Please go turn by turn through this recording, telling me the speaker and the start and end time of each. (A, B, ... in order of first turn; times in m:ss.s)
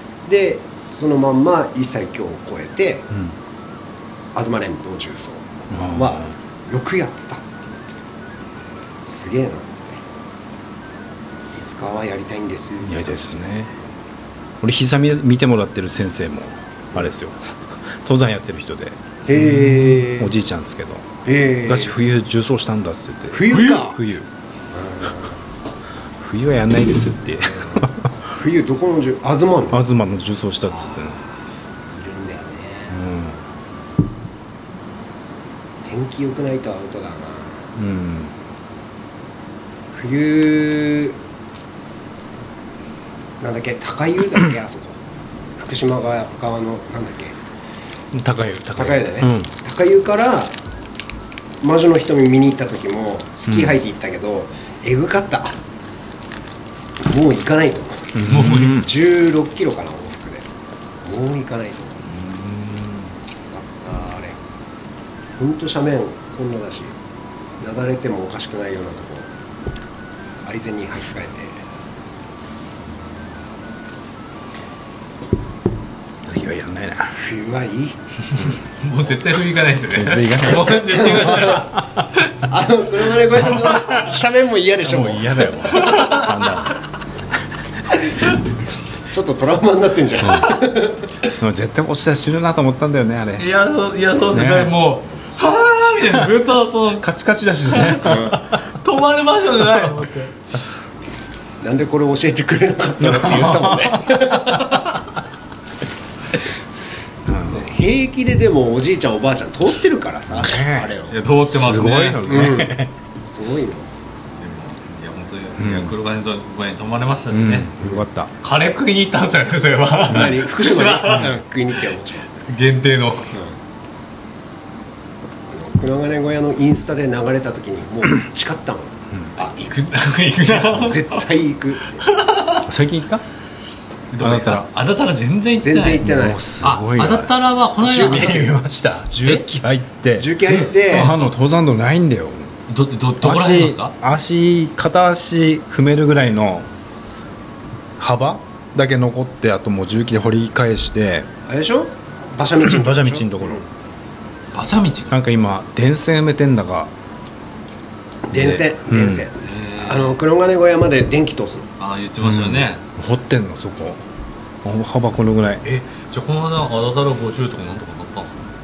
0:00.2-0:03.1 A
0:04.3-0:08.0 A
0:05.7-0:06.3 B
0:09.0-0:10.0 A
0:11.5-0:13.4 A
0:12.8-0:13.7 B
0:14.6-0:24.3 B
0:19.2-0:20.3 A
0:21.2-0:21.9 A
0:23.3-0:24.0 A
0:24.7-0:25.4 A
0:26.2-0:28.1 B
0:27.4-0:29.8 A
0:29.7-0:31.2 B
0:30.7-0:33.0 A
0:32.9-0:33.4 B
0:35.8-0:37.7 A
0:37.8-0:38.3 B
0:39.9-0:41.2 A
0:43.4-0:45.0 A
0:45.6-0:47.4 A
0:48.1-0:49.5 B
0:48.7-0:50.5 A
0:51.6-0:55.6 A
0:53.5-0:53.8 B
0:57.0-1:02.1 A
0:58.1-0:58.9 B
0:58.2-0:58.8 C
1:02.2-1:03.0 B
1:03.2-1:04.4 A
1:05.4-1:07.0 A
1:07.6-1:09.3 A
1:10.4-1:11.6 A
1:16.2-1:17.2 B
1:17.1-1:18.0 A
1:18.3-1:21.7 C
1:19.9-1:21.9 B
1:20.9-1:21.6 A
1:22.4-1:25.5 A
1:23.5-1:23.9 B
1:24.8-1:26.8 B
1:25.6-1:26.7 C
1:29.1-1:31.3 A
1:30.2-1:30.5 B
1:31.4-1:33.5 B
1:33.4-1:37.1 C
1:34.3-1:34.8 B
1:36.0-1:36.3 B
1:37.0-1:38.5 B
1:37.7-1:40.3 C
1:38.0-1:38.4 A
1:41.6-1:44.9 A
1:43.0-1:44.6 B
1:47.2-1:47.8 B
1:47.5-1:51.2 A
1:50.3-1:50.9 B
1:51.1-1:52.4 C
1:51.5-1:52.9 B
1:52.2-1:53.9 A
1:54.4-1:57.7 C
1:55.6-1:56.0 B
1:57.3-1:58.3 B
1:58.4-2:01.3 C
2:00.0-2:02.3 A
2:02.5-2:03.3 C
2:03.3-2:03.6 A
2:05.5-2:09.0 A
2:09.4-2:11.2 C
2:10.6-2:12.1 A
2:12.0-2:12.6 C
2:12.6-2:13.2 B
2:14.1-2:16.0 C
2:14.2-2:14.7 B
2:15.6-2:16.4 A
2:16.0-2:22.5 B
2:16.6-2:18.5 C
2:17.9-2:18.5 A
2:20.2-2:21.1 A
2:20.4-2:21.2 C
2:22.7-2:23.9 C
2:23.2-2:26.7 B
2:28.0-2:31.3 B
2:31.4-2:33.6 A
2:32.6-2:33.6 B
2:34.5-2:35.1 C
2:35.1-2:36.9 B
2:38.3-2:41.7 A
2:38.3-2:39.3 B
2:39.4-2:40.2 C
2:41.8-2:42.8 C
2:42.2-2:44.0 B
2:44.6-2:45.6 B
2:45.6-2:48.5 C